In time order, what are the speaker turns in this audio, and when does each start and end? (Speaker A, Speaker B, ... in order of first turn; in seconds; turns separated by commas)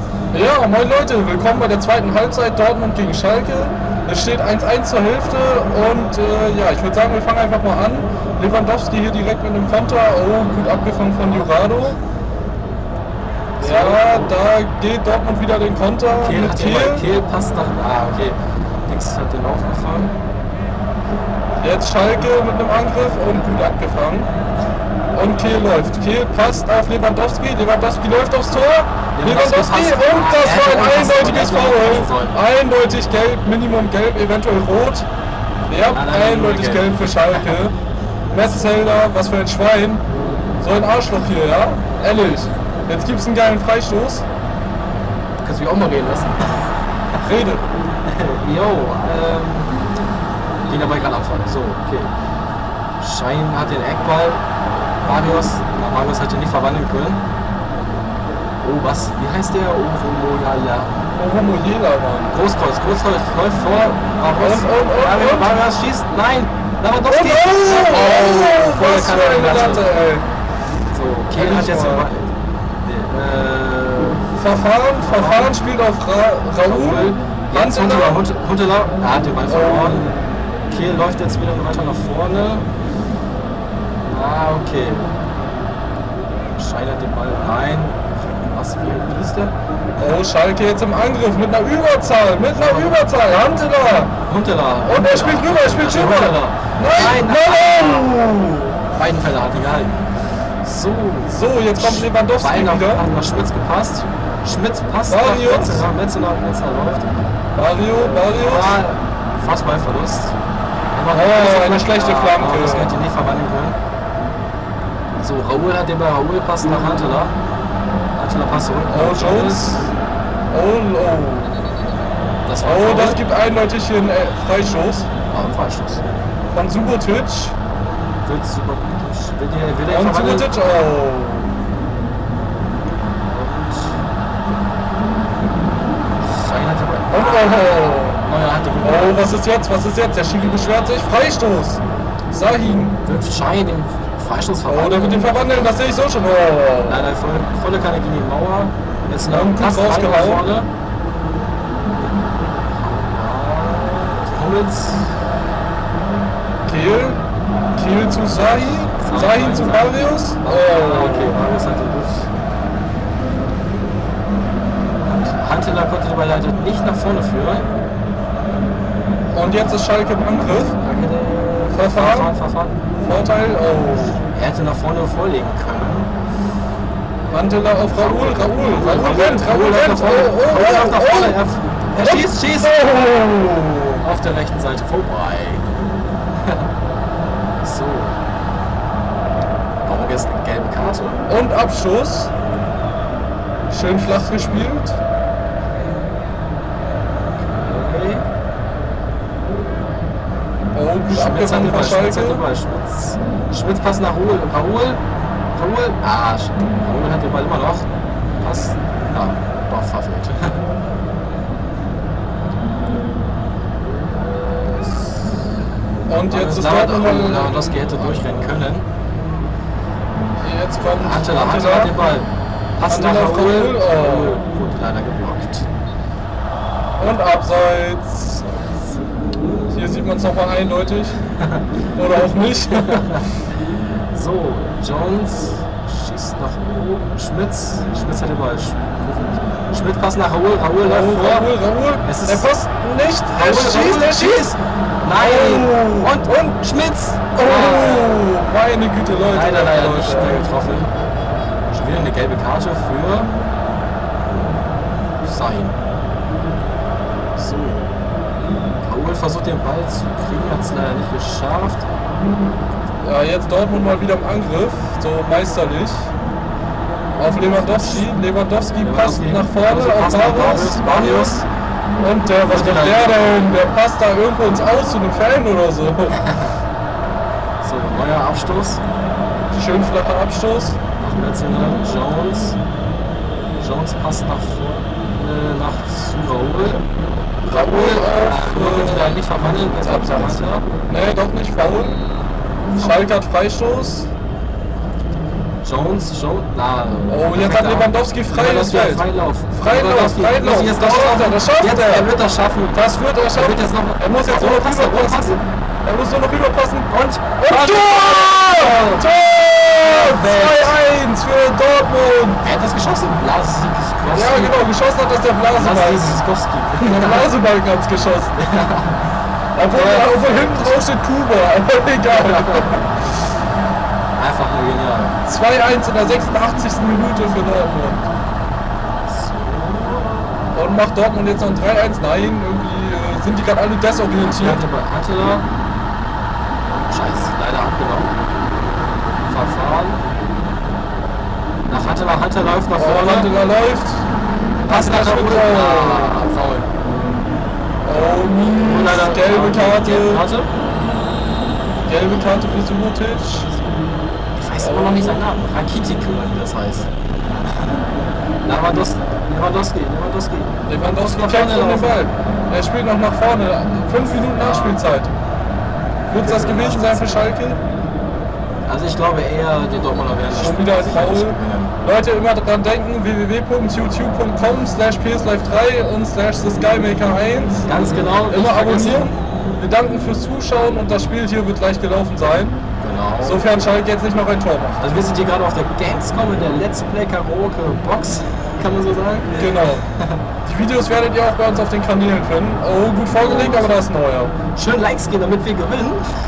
Speaker A: 0.3-12.0, Speaker B: 11.3-11.7, Speaker B: 13.6-14.4, Speaker A: 13.6-17.0, Speaker B: 16.2-20.1, Speaker A: 21.6-24.3, Speaker A: 25.1-35.1, Speaker B: 29.1-32.3, Speaker A: 35.7-37.8, Speaker B: 35.9-37.5, Speaker A: 38.3-40.0, Speaker A: 40.6-44.2, Speaker B: 45.4-46.4, Speaker A: 47.2-47.6, Speaker B: 48.1-49.7, Speaker B: 50.7-52.1, Speaker B: 53.0-54.4, Speaker B: 55.0-57.2, Speaker B: 58.6-61.0, Speaker A: 61.2-62.4, Speaker B: 62.3-69.9, Speaker A: 64.4-65.5, Speaker A: 67.0-70.3, Speaker B: 70.9-74.2, Speaker A: 71.3-72.1, Speaker A: 74.4-78.2, Speaker B: 75.0-75.5, Speaker B: 76.6-80.1, Speaker A: 79.5-80.2, Speaker B: 80.7-82.7, Speaker B: 84.0-85.1, Speaker B: 86.6-90.1, Speaker A: 90.0-94.1, Speaker B: 92.5-93.0, Speaker B: 94.3-98.2, Speaker A: 94.8-98.7, Speaker B: 98.9-100.0, Speaker B: 100.6-107.1, Speaker A: 101.3-103.0, Speaker A: 105.1-105.9, Speaker A: 107.5-108.8, Speaker B: 108.0-110.3, Speaker B: 110.9-113.8, Speaker A: 111.1-112.9, Speaker B: 115.2-117.3, Speaker B: 118.2-119.8, Speaker A: 118.9-119.9, Speaker A: 120.5-121.7, Speaker B: 122.5-123.2, Speaker A: 122.6-125.1, Speaker B: 125.3-126.0, Speaker A: 126.5-127.5, Speaker B: 128.2-130.6, Speaker A: 129.9-131.5, Speaker B: 133.2-134.0, Speaker B: 136.2-139.3, Speaker A: 137.1-138.2, Speaker A: 138.8-143.0, Speaker B: 143.0-145.3, Speaker A: 144.7-147.1, Speaker B: 146.9-150.7, Speaker A: 149.3-150.4, Speaker B: 152.7-155.2, Speaker A: 156.7-157.2, Speaker A: 157.7-161.4, Speaker B: 158.9-162.3, Speaker B: 165.0-167.7, Speaker A: 169.3-170.8, Speaker B: 170.8-172.8, Speaker A: 171.7-172.3, Speaker A: 172.9-174.2, Speaker B: 174.3-176.1, Speaker A: 177.3-181.4, Speaker B: 177.9-182.8, Speaker A: 181.9-184.0, Speaker B: 184.0-185.7, Speaker B: 187.6-188.2, Speaker B: 189.8-191.2, Speaker A: 191.3-192.3, Speaker A: 193.7-195.0, Speaker B: 197.4-198.2, Speaker A: 200.7-202.4, Speaker B: 201.1-205.0, Speaker B: 205.5-210.6, Speaker B: 213.7-215.4, Speaker A: 216.1-218.5, Speaker B: 216.2-218.9, Speaker A: 220.4-222.0, Speaker B: 221.0-225.7, Speaker A: 222.8-224.4, Speaker A: 227.0-228.6, Speaker A: 229.7-231.2, Speaker B: 231.4-231.6, Speaker A: 231.9-233.1, Speaker B: 232.7-233.2, Speaker B: 234.1-242.5, Speaker A: 240.8-244.5, Speaker B: 243.3-248.3, Speaker A: 245.2-246.7, Speaker A: 247.2-250.5, Speaker B: 249.2-250.9, Speaker B: 251.7-253.3, Speaker B: 255.2-255.8, Speaker B: 257.4-257.9, Speaker B: 258.8-261.9, Speaker A: 263.0-266.1, Speaker A: 267.2-271.5, Speaker B: 267.4-268.1, Speaker B: 268.8-271.4, Speaker A: 272.0-276.2, Speaker B: 272.4-273.5, Speaker B: 276.2-276.5, Speaker B: 277.6-278.8, Speaker A: 279.5-280.8, Speaker B: 281.0-282.6, Speaker B: 283.6-286.9, Speaker B: 287.4-290.6, Speaker A: 287.5-292.0, Speaker A: 292.7-294.1, Speaker B: 295.6-305.4, Speaker A: 297.1-302.1, Speaker A: 302.7-312.4, Speaker B: 306.9-309.1, Speaker B: 309.7-310.8, Speaker B: 312.4-314.7, Speaker A: 314.1-316.2, Speaker B: 315.5-317.3, Speaker A: 316.8-318.4, Speaker B: 318.4-319.1, Speaker A: 319.5-322.9, Speaker B: 319.7-320.8, Speaker B: 322.1-322.8, Speaker B: 324.2-325.2, Speaker A: 325.2-328.1, Speaker B: 329.1-330.8, Speaker A: 330.5-334.6, Speaker B: 334.2-335.5, Speaker B: 336.9-338.1, Speaker B: 339.3-340.0, Speaker B: 341.7-343.3, Speaker A: 342.7-344.0, Speaker B: 344.6-346.7, Speaker A: 344.7-346.2, Speaker A: 347.8-350.2, Speaker B: 348.6-350.5, Speaker A: 351.9-353.5, Speaker B: 354.4-356.9, Speaker A: 354.5-355.2, Speaker B: 358.4-362.0, Speaker A: 360.7-365.1, Speaker B: 364.3-364.8, Speaker A: 366.1-367.6, Speaker B: 366.2-367.3, Speaker B: 368.6-371.7, Speaker A: 370.3-377.7, Speaker B: 377.6-379.1, Speaker A: 378.2-382.6, Speaker B: 382.8-383.4, Speaker A: 383.2-384.8, Speaker B: 384.8-390.2, Speaker A: 389.3-389.8, Speaker A: 390.4-394.3, Speaker B: 393.1-393.7, Speaker B: 394.5-396.1